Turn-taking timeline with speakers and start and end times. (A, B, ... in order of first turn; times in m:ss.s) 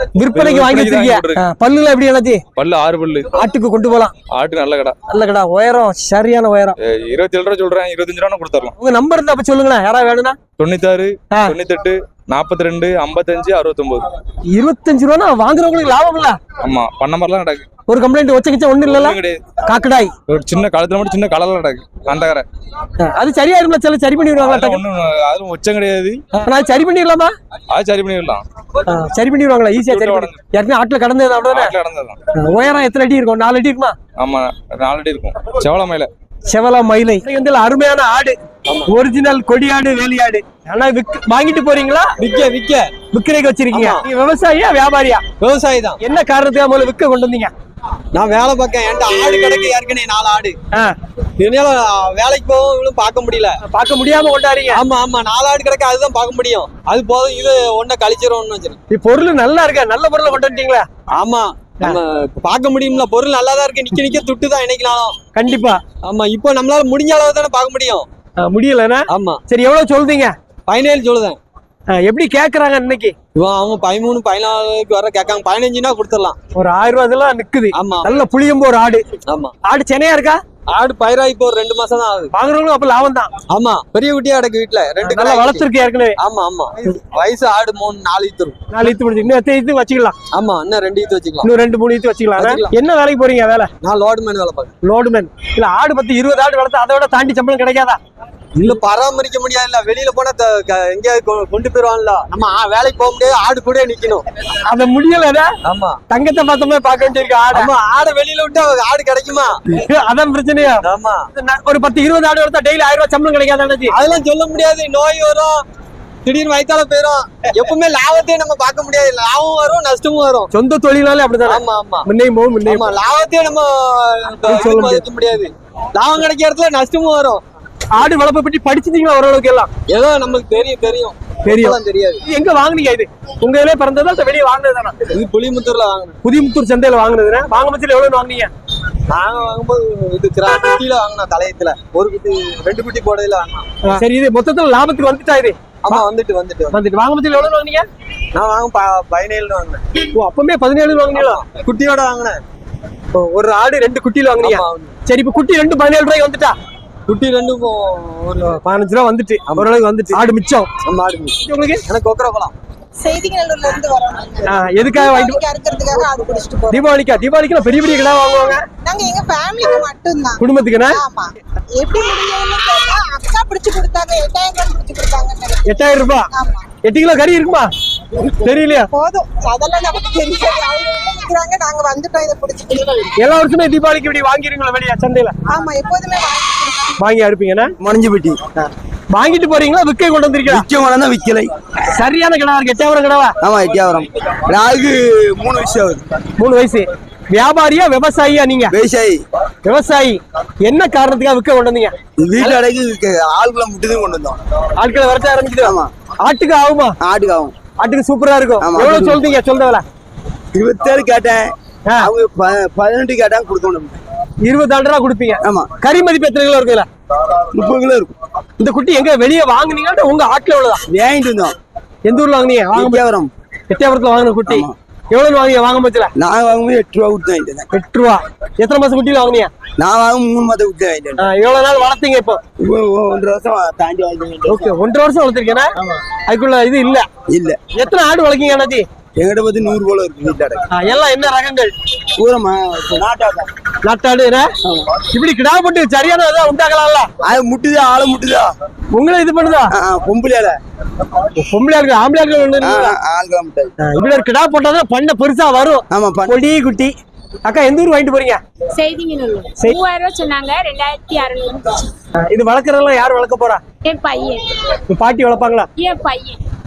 0:00.2-0:02.4 A
0:00.3-0:01.4 B
0:02.6-0:03.3 B
0:03.3-0:04.1 A
0:04.3-0:04.9 B
0:05.1-0:06.8 A
0:06.8-0:08.7 B
0:08.8-0:10.4 A
0:10.6-0:14.1 B
0:14.5-0:16.4 A
0:16.6-0:17.6 B
0:17.9-0:20.1 A
0:18.8-0:19.4 B
0:20.3-0:22.4 B
0:23.0-0:24.8 A
0:24.4-0:26.2 B
0:26.3-0:27.3 A
0:27.7-0:28.4 B
0:28.8-0:31.7 A
0:29.8-0:30.4 B
0:31.5-0:32.2 B
0:32.3-0:34.0 A
0:34.2-0:36.1 B
0:36.5-0:38.4 A
0:38.7-0:38.9 C
0:38.9-0:42.1 A
0:42.2-0:42.9 C
0:43.1-0:45.2 A
0:43.7-0:44.0 C
0:45.4-0:46.0 C
0:46.0-0:47.5 A
0:48.1-0:50.5 C
0:51.4-0:53.6 C
0:53.6-0:54.8 A
0:54.7-0:58.8 C
0:58.9-1:00.8 A
1:01.1-1:05.2 C
1:05.3-1:05.8 A
1:06.0-1:08.0 C
1:08.4-1:10.3 A
1:09.1-1:09.4 C
1:10.7-1:11.4 C
1:11.9-1:13.1 A
1:13.4-1:16.4 C
1:16.6-1:19.0 A
1:17.7-1:18.1 C
1:19.3-1:19.5 C
1:19.6-1:20.4 A
1:20.7-1:22.3 C
1:22.3-1:23.3 A
1:23.5-1:25.6 C
1:25.0-1:26.2 A
1:26.2-1:28.6 C
1:28.7-1:30.1 A
1:30.3-1:31.5 C
1:31.4-1:33.7 A
1:32.4-1:32.7 C
1:33.8-1:34.7 C
1:34.8-1:38.0 A
1:38.6-1:44.2 C
1:44.6-1:45.5 A
1:45.6-1:46.0 C
1:46.1-1:47.7 A
1:47.5-1:49.6 C
1:49.7-1:54.0 A
1:50.8-1:51.2 C
1:53.9-1:55.6 C
1:56.2-2:00.5 C
2:00.5-2:02.8 A
2:01.4-2:02.0 C
2:02.6-2:07.4 C
2:04.3-2:05.0 A
2:07.9-2:09.7 A
2:09.9-2:12.2 C
2:11.5-2:15.0 A
2:15.1-2:16.2 C
2:16.2-2:18.5 A
2:19.1-2:23.7 C
2:23.8-2:26.0 A
2:25.8-2:26.8 C
2:26.7-2:27.8 A
2:28.3-2:29.8 C
2:30.1-2:31.4 A
2:31.1-2:32.4 C
2:33.1-2:36.5 A
2:34.4-2:34.9 C
2:37.1-2:38.6 C
2:38.5-2:40.7 A
2:40.8-2:42.5 C
2:41.4-2:41.8 A
2:43.0-2:46.9 D
2:44.5-2:45.4 A
2:46.7-2:48.6 A
2:48.8-2:56.6 D
2:50.4-2:51.0 A
2:55.7-2:56.3 A
2:56.8-2:57.7 A
2:58.3-2:58.9 A
2:58.9-3:03.1 D
3:03.2-3:05.3 A
3:05.5-3:07.0 D
3:07.0-3:07.7 A
3:07.8-3:08.4 E
3:09.1-3:10.7 A
3:10.5-3:11.5 E
3:11.9-3:13.3 A
3:13.4-3:16.0 E
3:16.4-3:18.8 A
3:18.7-3:19.2 E
3:19.6-3:22.6 A
3:22.2-3:24.4 E
3:24.8-3:27.0 A
3:25.6-3:25.9 E
3:27.0-3:27.5 E
3:27.8-3:29.8 A
3:28.6-3:29.2 E
3:30.5-3:34.0 E
3:34.4-3:36.9 A
3:35.4-3:35.7 E
3:37.5-3:38.1 E
3:38.6-3:40.8 A
3:40.9-3:41.5 E
3:42.1-3:43.0 A
3:42.7-3:43.3 E
3:43.7-3:46.1 A
3:44.5-3:44.7 E
3:46.2-3:47.7 E
3:47.7-3:49.5 A
3:49.8-3:51.2 E
3:51.2-3:52.4 A
3:52.6-3:54.7 E
3:54.5-3:55.7 A
3:56.2-3:57.1 A
3:57.3-3:57.6 E
3:57.7-3:58.8 A
3:59.2-4:00.6 E
4:00.7-4:01.7 A
4:02.2-4:03.5 E
4:03.8-4:04.5 A
4:05.1-4:07.1 A
4:07.2-4:08.5 E
4:08.9-4:09.7 A
4:09.7-4:10.6 E
4:11.4-4:13.0 A
4:12.6-4:13.7 E
4:13.8-4:16.9 A
4:15.9-4:16.3 E
4:17.4-4:18.4 A
4:18.7-4:21.9 F
4:22.3-4:23.6 A
4:23.8-4:24.4 F
4:24.9-4:25.7 A
4:25.8-4:26.4 F